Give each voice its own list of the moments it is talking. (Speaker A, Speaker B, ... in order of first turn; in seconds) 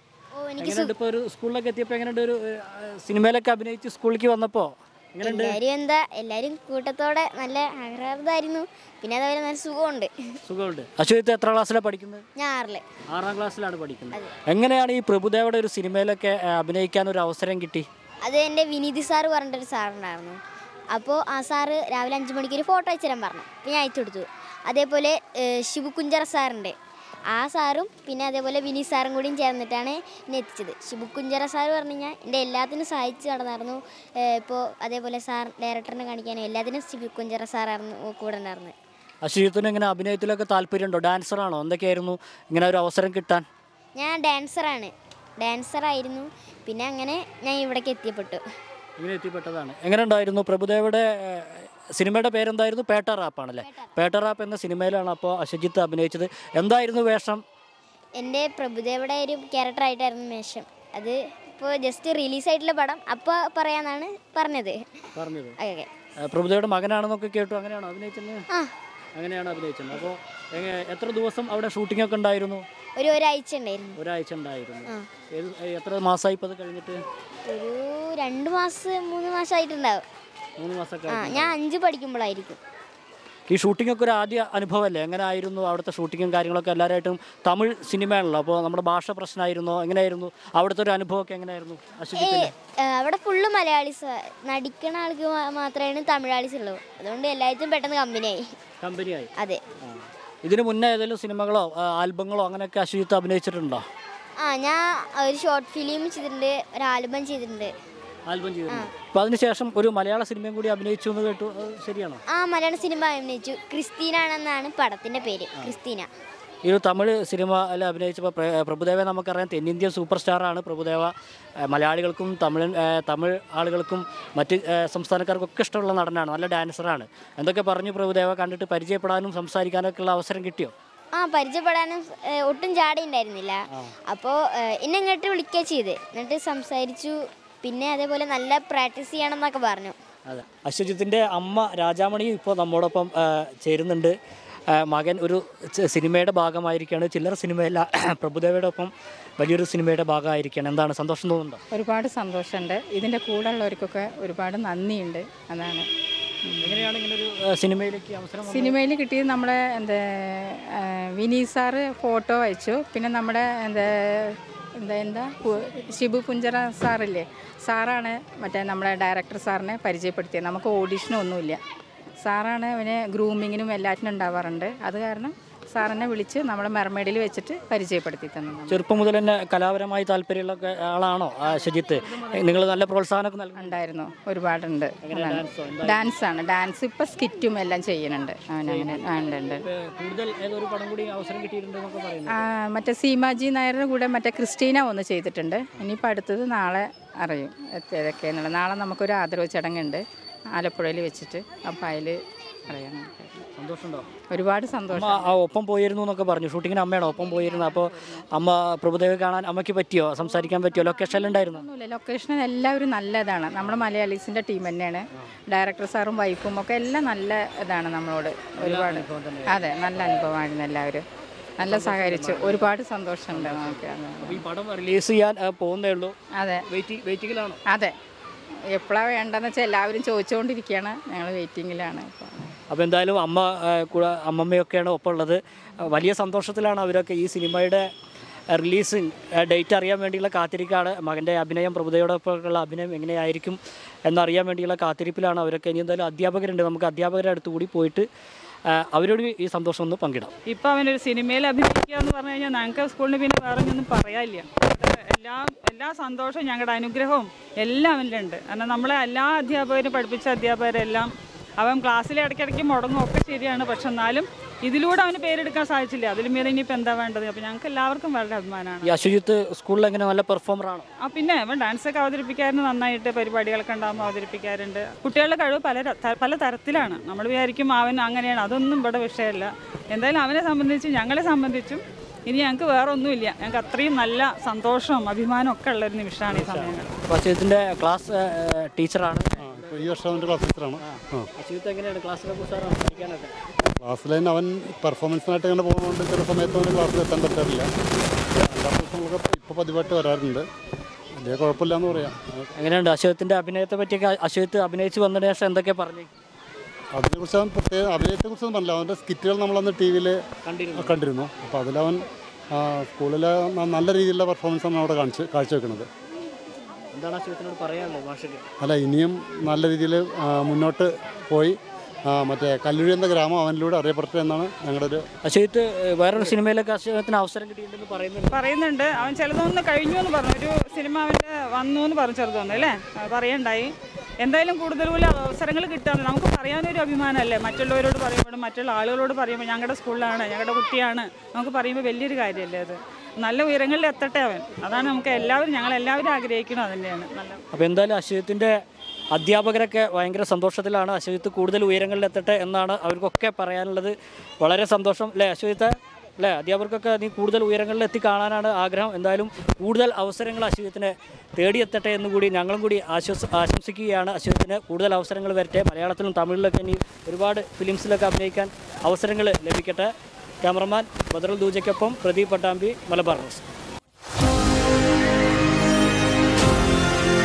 Speaker A: 0.4-0.9, 5.2-10.1, 12.4-12.8, 18.2-20.4, 20.9-26.8, 27.3-33.8, 34.3-38.7, 44.0-48.4, 58.2-64.8, 65.6-65.9, 73.0-74.0, 77.5-80.0, 81.1-82.6, 92.2-98.4, 104.4-107.7, 112.3-116.1, 131.2-133.6, 134.1-140.0
Speaker B: 0.6-5.6, 10.5-12.2, 13.1-17.9, 39.2-43.5, 49.0-57.4, 65.1-65.6, 66.2-68.5, 69.2-72.6, 73.9-77.0, 80.6-81.6, 83.5-92.5, 98.8-99.3, 99.8-103.8, 108.3-112.2, 116.6-121.1, 121.6-130.7, 140.3-144.2, 144.7-151.6, 156.6-158.8, 178.7-183.8, 185.0-186.1, 188.7-189.0, 189.6-192.4, 203.6-204.1, 204.9-211.7, 218.6-219.6, 221.6-222.7, 223.3-226.1, 226.7-227.6, 232.7-237.9, 238.5-248.1, 248.7-250.3, 268.8-270.9, 286.3-290.1, 290.8-293.3, 302.6-306.1, 310.4-310.9, 316.9-318.4, 325.2-328.4, 347.5-348.6, 349.1-369.9, 370.4-373.4
Speaker C: 151.7-155.9, 156.4-156.9, 158.5-171.6, 172.2-178.8, 183.6-189.6, 192.3-200.0, 200.5-203.5, 204.3-205.3, 207.0-208.2, 210.2-221.1, 221.6-224.4, 226.4-226.6, 228.7-232.6
Speaker D: 250.5-268.9, 271.0-286.9, 328.3-347.4
Speaker E: 289.4-291.3, 293.8-297.7, 298.4-300.4, 301.1-302.5, 306.9-310.2, 310.7-315.9, 318.6-321.6, 322.1-325.0